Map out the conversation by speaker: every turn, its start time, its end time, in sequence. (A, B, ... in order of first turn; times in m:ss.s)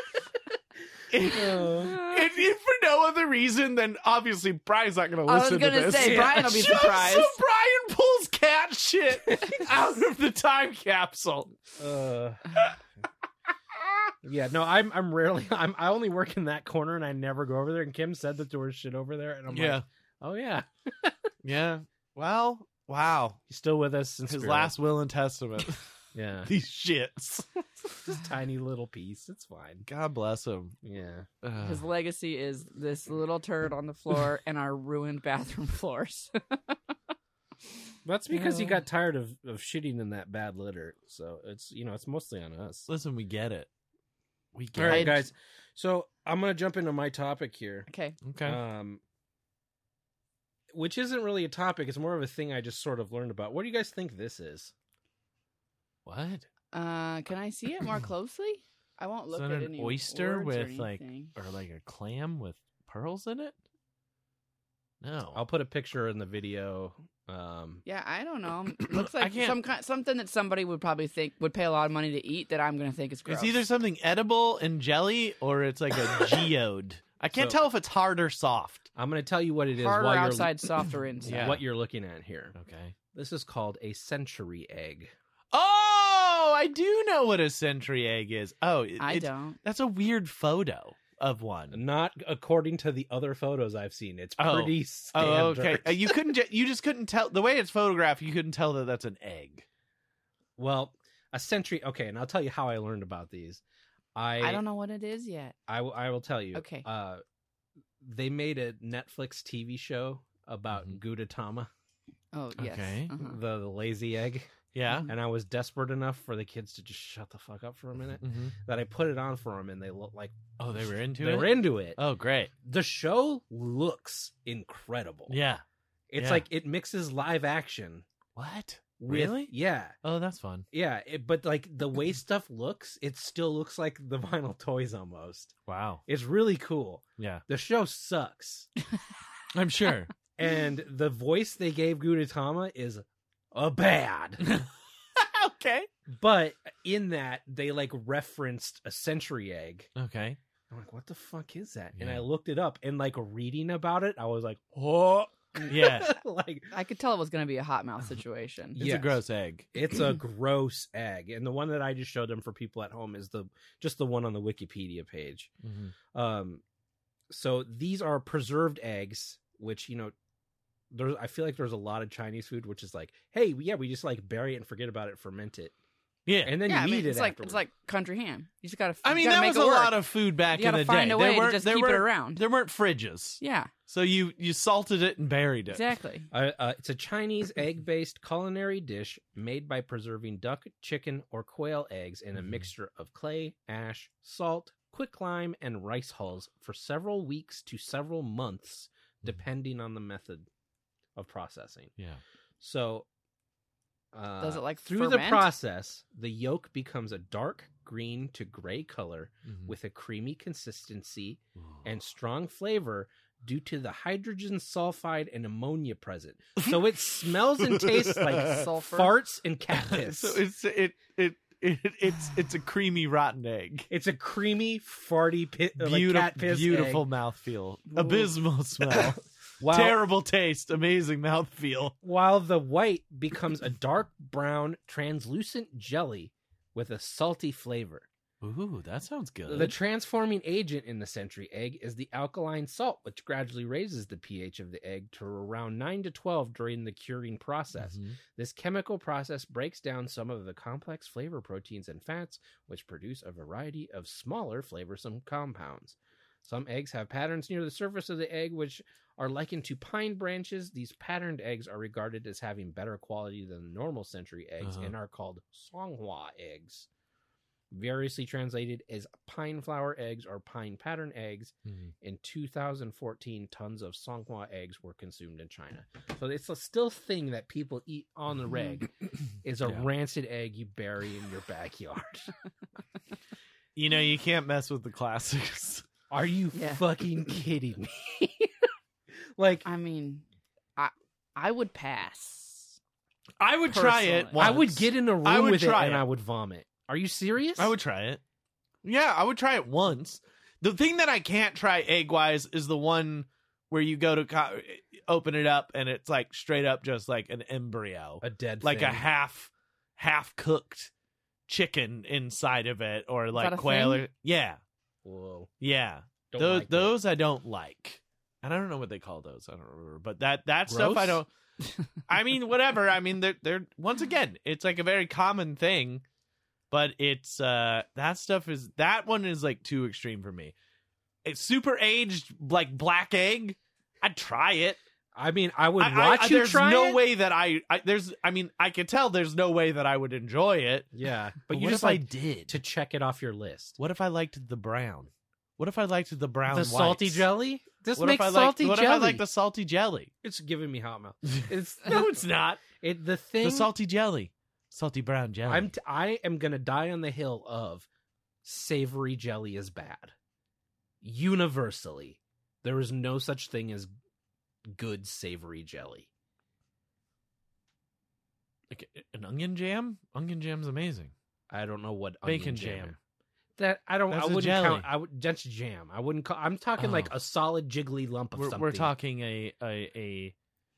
0:01.1-0:11.5 A
0:01.3-0:02.0 B
0:05.3-0:07.4 C
0:06.0-0:06.5 B
0:09.3-0:09.6 B
0:11.8-0:12.6 B
0:14.2-0:21.3 B
0:19.5-0:19.8 A
0:21.4-0:23.4 A
0:23.5-0:24.7 B
0:24.3-0:25.9 A
0:26.1-0:26.5 B
0:26.4-0:27.6 A
0:27.9-0:29.8 B
0:29.8-0:30.8 A
0:30.8-0:31.3 B
0:31.4-0:31.8 A
0:31.6-0:36.8 C
0:38.0-0:42.9 B
0:38.3-0:38.7 C
0:42.9-0:43.7 A
0:44.5-0:45.2 A
0:44.7-0:47.9 B
0:44.9-0:45.2 C
0:47.9-0:48.2 C
0:48.2-0:48.6 A
0:48.4-0:49.0 B
0:50.7-0:54.7 B
0:56.0-0:56.5 A
0:56.7-1:01.3 C
0:59.3-1:03.5 A
1:05.0-1:05.4 A
1:05.3-1:07.8 B
1:07.8-1:13.6 C
1:08.9-1:09.6 A
1:13.2-1:18.9 A
1:18.9-1:20.6 B
1:19.8-1:21.5 C
1:21.2-1:22.5 B
1:21.2-1:21.6 A
1:22.5-1:23.0 A
1:23.1-1:25.1 B
1:25.5-1:31.8 A
1:29.0-1:29.6 C
1:31.7-1:36.1 B
1:34.4-1:39.6 A
1:40.6-1:43.6 B
1:44.1-1:44.6 B
1:44.4-1:45.5 C
1:45.7-1:47.2 B
1:46.5-1:46.9 C
1:48.0-1:51.7 B
1:52.3-1:53.4 C
1:52.6-1:53.1 A
1:53.1-1:54.5 B
1:54.7-1:55.1 A
1:55.0-2:02.0 B
1:58.2-1:58.5 A
2:00.6-2:02.5 A
2:02.6-2:05.4 B
2:05.3-2:05.6 A
2:06.1-2:08.0 B
2:06.2-2:06.4 A
2:08.4-2:10.6 A
2:09.0-2:10.0 B
2:10.7-2:15.5 B
2:15.7-2:16.0 A
2:16.0-2:18.7 B
2:19.5-2:20.1 A
2:20.4-2:24.4 B
2:24.4-2:25.9 A
2:26.1-2:29.9 B
2:30.0-2:30.4 A
2:30.7-2:36.7 B
2:32.0-2:32.2 A
2:35.6-2:36.2 A
2:36.7-2:38.8 C
2:38.8-2:39.2 B
2:38.8-2:39.7 A
2:39.7-2:45.5 B
2:45.6-2:45.9 A
2:46.1-2:46.6 B
2:47.3-2:50.1 B
2:50.9-2:55.7 B
2:56.3-2:56.6 A
2:56.4-2:57.6 B
2:56.6-3:00.0 C
2:59.0-3:05.8 A
3:00.5-3:02.4 C
3:03.4-3:03.7 C
3:05.7-3:06.3 C
3:06.3-3:20.5 B
3:12.4-3:12.6 A
3:21.1-3:21.9 B
3:22.6-3:23.1 B
3:24.1-3:40.4 B
3:24.4-3:25.5 C
3:29.4-3:29.7 A
3:37.6-3:38.7 A
3:38.3-3:39.1 C
3:39.9-3:43.9 A
3:43.9-3:47.0 B
3:45.8-3:51.9 A
3:48.0-3:48.3 C
3:48.8-3:50.0 B
3:52.0-3:58.1 B
3:58.4-3:59.8 A
3:59.5-4:26.9 B
4:07.8-4:08.2 A
4:24.6-4:24.9 A
4:27.7-4:42.3 B
4:43.8-4:45.8 A
4:46.1-4:48.5 B
4:46.5-4:46.8 C
4:49.4-4:49.6 B
4:49.6-4:50.2 C
4:50.8-4:52.8 C
4:53.4-4:56.0 A
4:53.7-4:54.5 C
4:54.4-4:57.7 B
4:57.6-4:58.2 A
4:58.8-5:10.9 A
5:08.2-5:09.0 B
5:11.5-5:14.6 A
5:13.3-5:14.0 C
5:15.0-5:15.5 B
5:15.6-5:21.3 A
5:16.3-5:17.0 B
5:20.7-5:21.2 B
5:22.0-5:26.0 A
5:26.7-5:30.5 A
5:31.2-5:34.8 A
5:35.1-5:37.0 B
5:35.8-5:40.9 A
5:40.9-5:43.7 B
5:41.5-5:42.6 A
5:43.8-5:47.3 A
5:46.5-5:49.2 B
5:47.9-5:50.1 A
5:50.2-5:53.7 B
5:51.3-5:52.7 A
5:53.4-5:55.7 A
5:55.5-5:57.9 B
5:58.4-6:00.1 B
6:01.0-6:03.9 B
6:04.7-6:06.1 B
6:08.7-6:11.1 A
6:11.5-6:13.0 B
6:12.2-6:13.0 A
6:13.6-6:18.9 B
6:14.1-6:14.9 A
6:16.8-6:17.1 A
6:18.3-6:20.3 A